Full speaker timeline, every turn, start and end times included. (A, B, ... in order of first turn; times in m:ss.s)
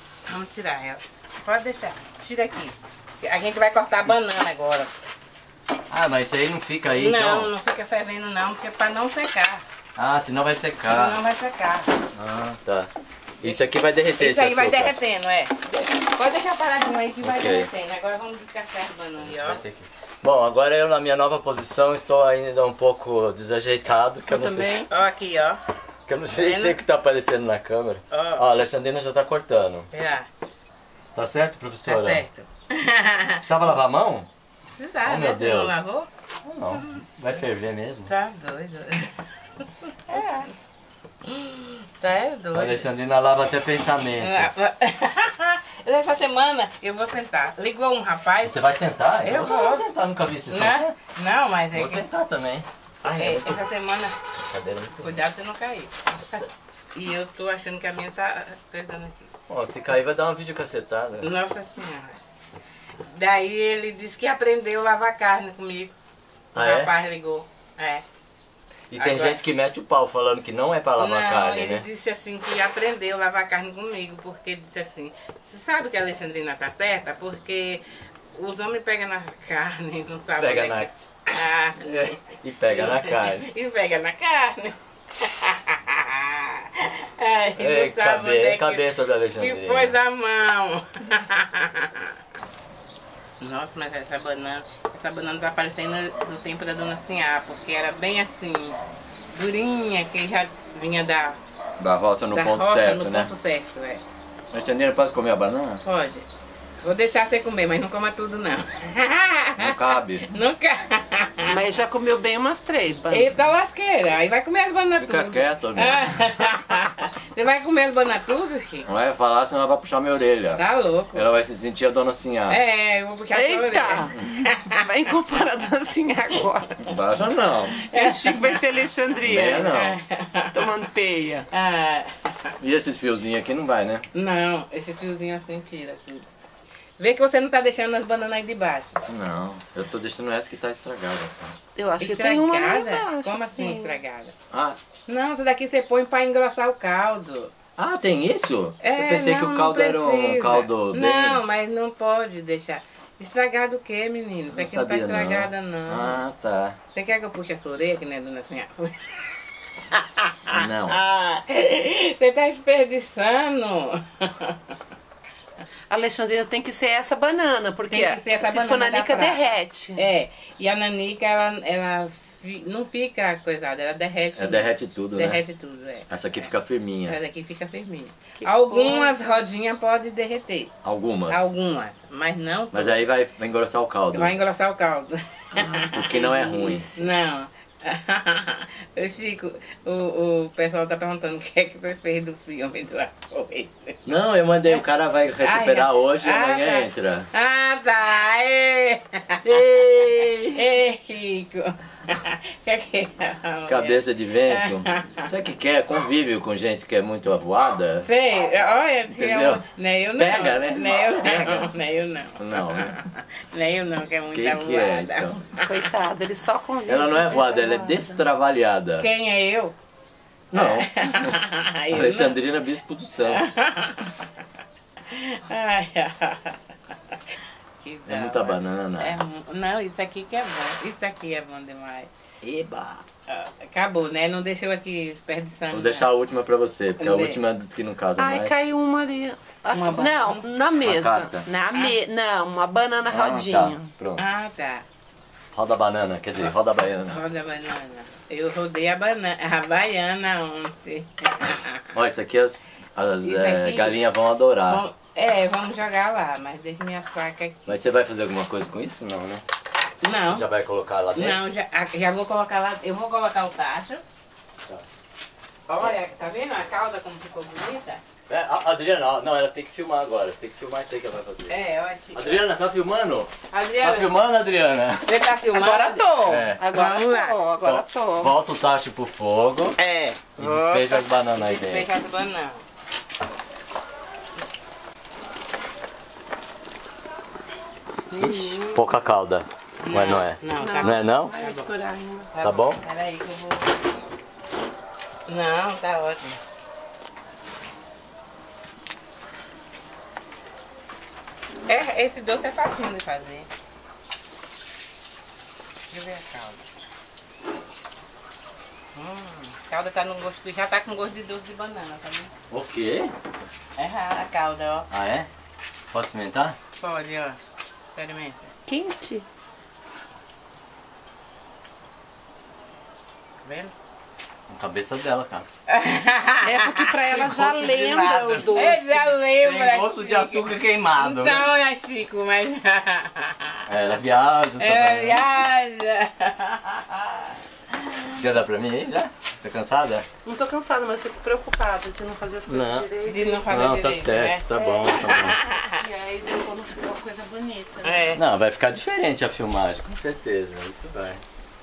0:00.2-0:04.9 A
0:05.9-0:07.5 B
0:06.9-0:09.6 A
0:10.0-0:11.2 B
0:10.9-0:11.9 A
0:12.1-0:12.9 B
0:13.4-0:14.9 B
0:14.2-0:19.6 A
0:17.2-0:17.7 B
0:19.2-0:24.9 B
0:24.3-0:25.6 A
0:26.1-0:29.9 B
0:26.4-0:26.8 A
0:28.1-0:28.5 A
0:29.9-0:30.3 A
0:31.1-0:32.2 B
0:31.8-0:33.4 A
0:33.4-0:34.3 B
0:34.7-0:36.1 A
0:35.0-0:35.8 B
0:36.4-0:38.1 B
0:36.7-0:37.0 A
0:38.1-0:40.5 A
0:41.2-0:42.8 A
0:42.5-0:44.5 B
0:44.2-0:48.6 A
0:48.4-0:50.9 B
0:49.2-0:49.8 A
0:50.5-0:52.0 A
0:51.7-0:53.6 B
0:53.2-0:54.1 A
0:54.4-0:55.1 B
0:55.0-0:59.3 A
0:56.1-0:56.5 B
0:59.5-1:01.3 B
1:01.2-1:02.2 A
1:03.1-1:05.9 A
1:06.5-1:06.9 B
1:06.5-1:08.0 A
1:08.9-1:11.8 B
1:09.0-1:09.4 A
1:11.0-1:17.8 A
1:18.3-1:32.1 A
1:20.4-1:23.5 B
1:25.2-1:25.5 B
1:27.6-1:30.0 B
1:33.4-1:38.8 A
1:39.3-1:41.4 A
1:41.8-1:43.3 B
1:42.3-1:44.0 A
1:44.5-1:45.8 B
1:45.8-1:46.2 A
1:46.8-1:51.6 A
1:49.6-1:50.3 B
1:51.4-1:53.3 C
1:53.1-1:58.9 A
1:55.0-1:56.5 B
1:58.8-2:00.6 B
2:00.6-2:01.2 A
2:01.1-2:02.6 B
2:02.5-2:04.8 A
2:03.3-2:06.8 C
2:06.8-2:07.8 B
2:07.8-2:08.6 A
2:07.8-2:09.8 C
2:09.2-2:10.0 B
2:09.7-2:10.6 A
2:10.5-2:11.5 C
2:11.5-2:12.5 A
2:12.6-2:14.0 B
2:14.1-2:16.2 A
2:17.0-2:19.0 A
2:19.1-2:21.6 B
2:21.8-2:24.0 C
2:22.0-2:24.3 A
2:24.5-2:24.8 B
2:25.1-2:27.5 A
2:27.8-2:31.4 B
2:28.8-2:36.2 A
2:34.5-2:36.8 B
2:36.9-2:39.1 A
2:39.9-2:44.7 A
2:40.5-2:41.0 B
2:45.9-2:50.0 C
2:47.9-2:56.2 A
2:54.4-2:55.4 B
2:56.1-2:57.2 B
2:57.0-3:00.7 A
2:58.4-2:59.3 C
3:00.8-3:01.5 B
3:01.3-3:03.1 A
3:02.7-3:04.3 B
3:04.1-3:14.0 A
3:05.5-3:07.0 B
3:14.0-3:17.3 B
3:15.4-3:19.4 A
3:19.4-3:20.6 B
3:20.5-3:25.3 A
3:23.7-3:28.1 B
3:28.0-3:35.7 A
3:29.1-3:29.6 B
3:30.2-3:31.7 B
3:32.4-3:33.0 B
3:34.3-3:35.4 B
3:35.6-3:38.2 C
3:36.8-3:39.1 B
3:39.0-3:39.7 A
3:40.5-3:43.6 B
3:40.5-3:42.4 A
3:43.2-3:44.3 A
3:45.1-3:46.6 A
3:47.8-3:52.1 A
3:48.0-3:49.2 B
3:52.4-3:53.0 B
3:53.3-3:56.1 A
3:55.7-3:58.5 B
3:57.0-3:57.4 A
3:58.2-4:03.9 C
3:59.7-4:00.4 A
4:00.8-4:01.4 B
4:03.1-4:04.2 B
4:04.2-4:04.8 A
4:05.5-4:07.2 B
4:07.1-4:11.9 A
4:11.9-4:14.8 B
4:13.2-4:14.0 A
4:14.7-4:17.6 A
4:17.6-4:19.4 B
4:20.0-4:20.4 A
4:20.3-4:21.4 B
4:21.1-4:24.0 A
4:25.7-4:28.0 A
4:28.3-4:31.6 B
4:31.5-4:32.4 A
4:32.1-4:35.1 B
4:33.5-4:34.1 A
4:35.0-4:36.0 A
4:35.5-4:38.3 C
4:36.2-4:36.6 B
4:36.7-4:37.4 A
4:37.6-4:39.7 B
4:39.8-4:42.6 A
4:40.4-4:41.9 B
4:48.1-4:48.8 A
4:48.2-4:51.3 B
4:49.8-4:51.7 A
4:50.6-4:52.3 C
4:52.3-4:53.7 A
4:52.4-4:52.8 B
4:55.3-4:56.4 A
5:01.7-5:03.5 A
5:05.9-5:06.6 A
5:09.0-5:12.3 A
5:12.5-5:13.1 B
5:13.8-5:14.9 A
5:14.9-5:15.3 B
5:15.9-5:16.6 B
5:16.8-5:17.4 A
5:17.9-5:18.5 A
5:18.7-5:19.2 C
5:23.4-5:23.7 A
5:24.5-5:25.5 B
5:25.7-5:33.6 A
5:26.4-5:29.0 C
5:27.2-5:31.5 B
5:33.7-5:35.3 B
5:34.6-5:38.1 A
5:38.1-5:40.1 B
5:40.2-5:43.5 C
5:42.5-5:42.9 B
5:43.0-5:45.8 A
5:43.5-5:45.4 B
5:45.7-5:48.1 C
5:47.8-5:48.2 A
5:48.1-5:51.2 B